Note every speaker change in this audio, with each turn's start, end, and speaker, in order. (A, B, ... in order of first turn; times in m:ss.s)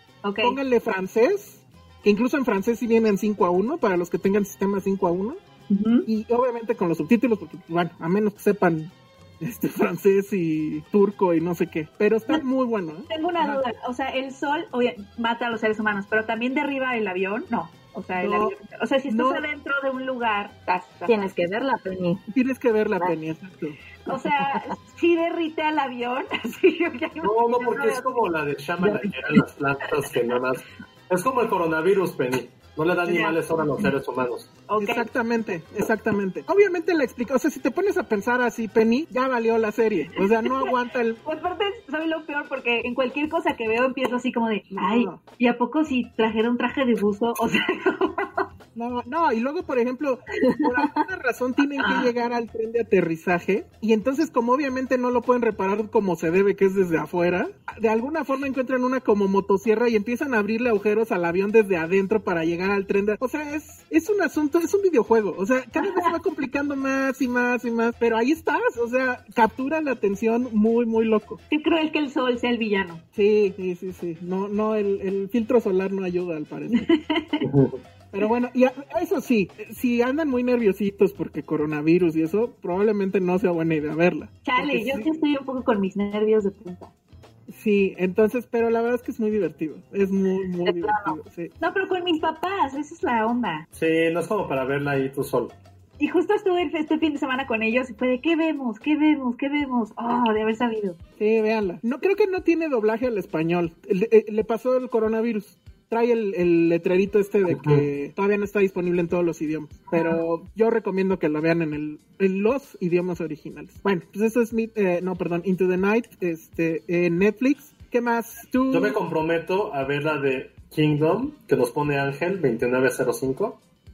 0:00.2-0:00.6 A
0:00.4-0:05.4 B
0:05.7-0:06.1 A
0:06.1-0:13.6 B
0:13.1-0:21.2 A
0:18.2-0:18.6 B
0:19.1-0:19.4 B
0:21.1-0:22.2 C
0:22.3-0:23.8 B
0:24.1-0:28.3 A
0:24.1-0:24.6 C
0:27.2-0:34.6 D
0:33.1-0:33.4 A
0:34.7-0:35.1 A
0:34.8-0:41.2 B
0:40.4-0:40.7 A
0:41.2-0:48.4 A
0:44.7-0:45.2 B
0:48.7-1:11.4 B
0:51.8-0:52.1 A
1:05.8-1:06.1 A
1:11.5-1:13.0 A
1:13.1-1:16.9 B
1:16.7-1:17.5 A
1:17.4-1:17.8 D
1:18.1-1:25.1 B
1:24.4-1:26.9 A
1:27.5-1:31.5 B
1:30.6-1:31.2 C
1:31.6-1:33.6 A
1:33.7-1:35.5 D
1:36.0-1:41.0 A
1:41.2-1:59.0 B
1:47.5-1:47.9 D
1:58.7-2:03.6 D